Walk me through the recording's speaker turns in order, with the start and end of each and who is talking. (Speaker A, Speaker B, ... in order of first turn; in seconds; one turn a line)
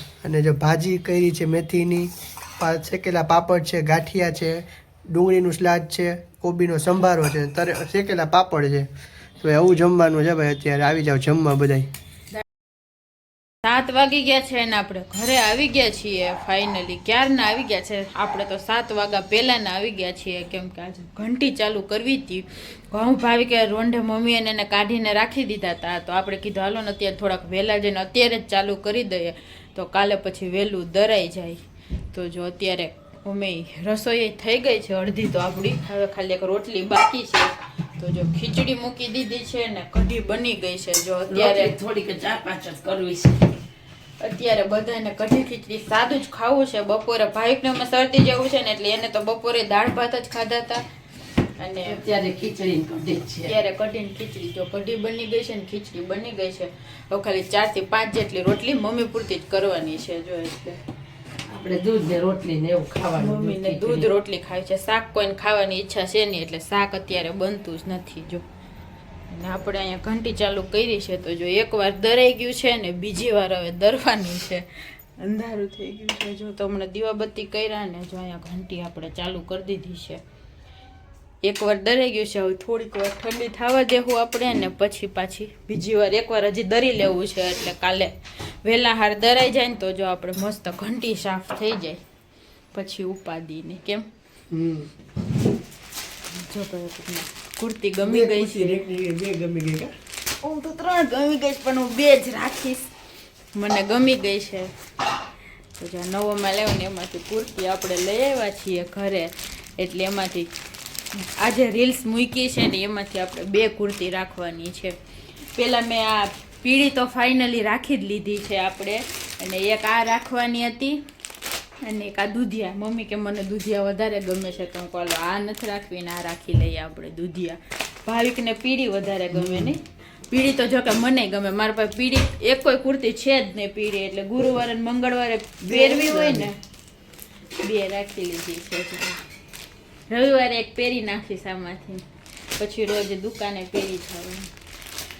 Speaker A: 0.2-8.9
Speaker A: 9.4-11.9
Speaker B: 13.6-31.6
Speaker B: 32.1-41.7
Speaker C: 41.3-43.5
Speaker B: 44.2-50.8
Speaker B: 51.6-52.0
Speaker C: 51.8-53.5
Speaker B: 53.4-60.8
Speaker C: 61.5-64.1
Speaker B: 63.1-68.4
Speaker B: 69.3-80.2
Speaker B: 81.4-92.0
Speaker B: 92.7-94.0
Speaker A: 94.5-94.9
Speaker B: 96.3-98.8
Speaker A: 98.0-99.9
Speaker B: 100.4-102.9
Speaker B: 103.5-104.7
Speaker B: 105.8-110.5
Speaker B: 111.4-114.9
Speaker B: 115.5-121.0
Speaker B: 121.8-136.5
Speaker A: 129.3-129.7
Speaker A: 135.6-136.5
Speaker B: 137.6-139.2
Speaker B: 140.1-142.0
Speaker B: 142.6-144.5